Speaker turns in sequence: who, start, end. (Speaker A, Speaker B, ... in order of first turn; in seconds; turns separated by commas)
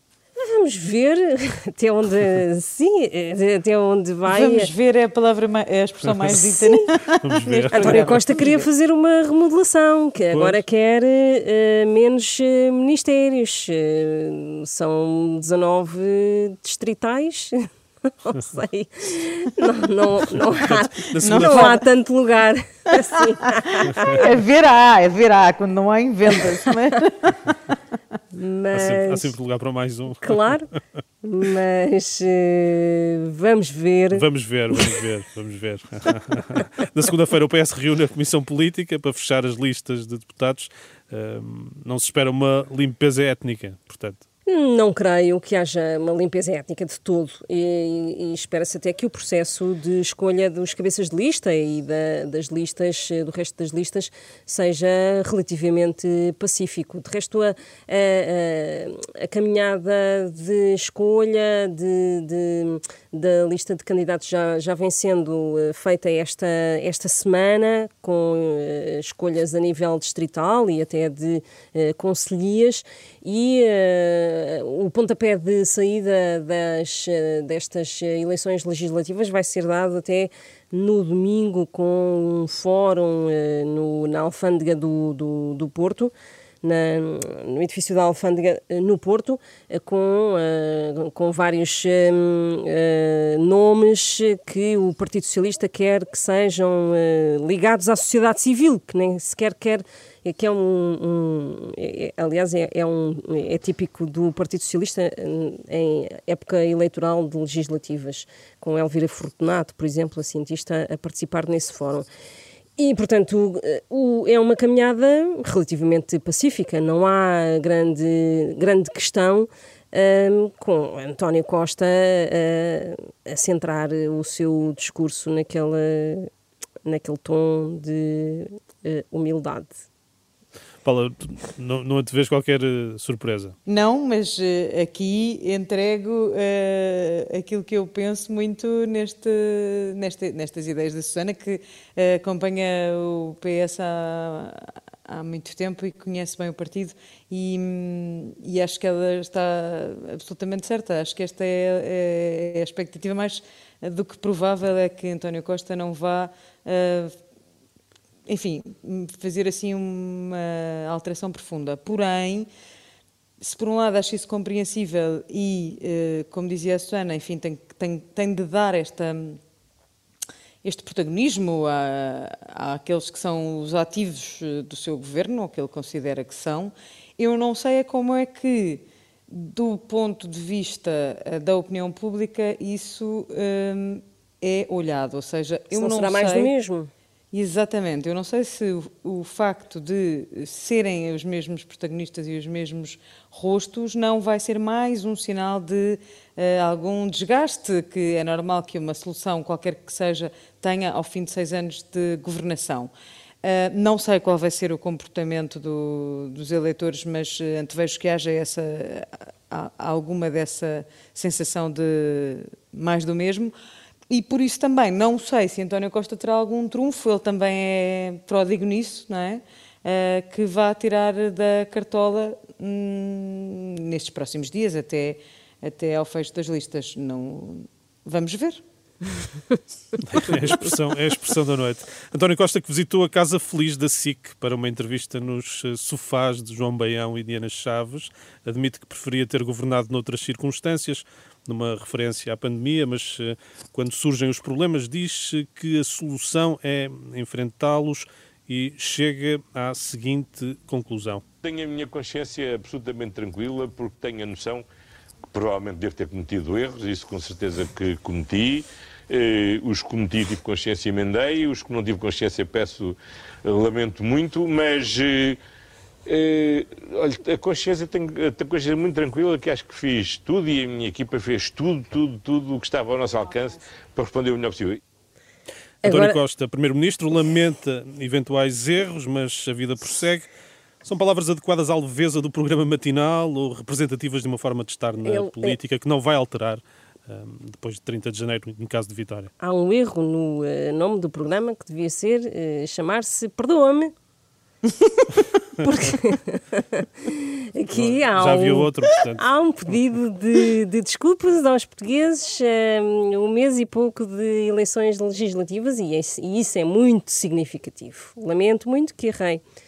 Speaker A: 0.3-4.7, Speaker B: 4.3-8.7, Speaker C: 6.0-6.4, Speaker C: 7.2-8.2, Speaker A: 7.7-17.7, Speaker C: 10.3-10.6, Speaker A: 18.2-24.3, Speaker C: 20.6-21.6, Speaker B: 21.2-21.8, Speaker B: 23.2-27.4, Speaker A: 28.3-29.3, Speaker C: 28.7-30.5, Speaker A: 30.2-30.7, Speaker A: 31.2-34.2, Speaker C: 34.1-44.2, Speaker A: 44.5-112.1, Speaker A: 112.8-126.3, Speaker A: 126.8-129.8, Speaker C: 130.8-133.6, Speaker B: 133.7-157.1, Speaker B: 158.3-162.5, Speaker B: 163.4-169.4, Speaker B: 170.6-186.5, Speaker A: 185.7-186.9, Speaker B: 187.3-202.9, Speaker B: 203.4-213.5, Speaker B: 214.1-228.6, Speaker C: 230.0-251.2, Speaker D: 251.4-254.7, Speaker D: 255.3-265.4, Speaker D: 266.1-274.8, Speaker A: 275.8-276.2, Speaker C: 275.8-280.3, Speaker C: 280.8-289.3, Speaker A: 285.0-285.6, Speaker A: 289.4-293.9, Speaker B: 294.6-295.1, Speaker A: 295.6-309.4, Speaker C: 297.7-299.9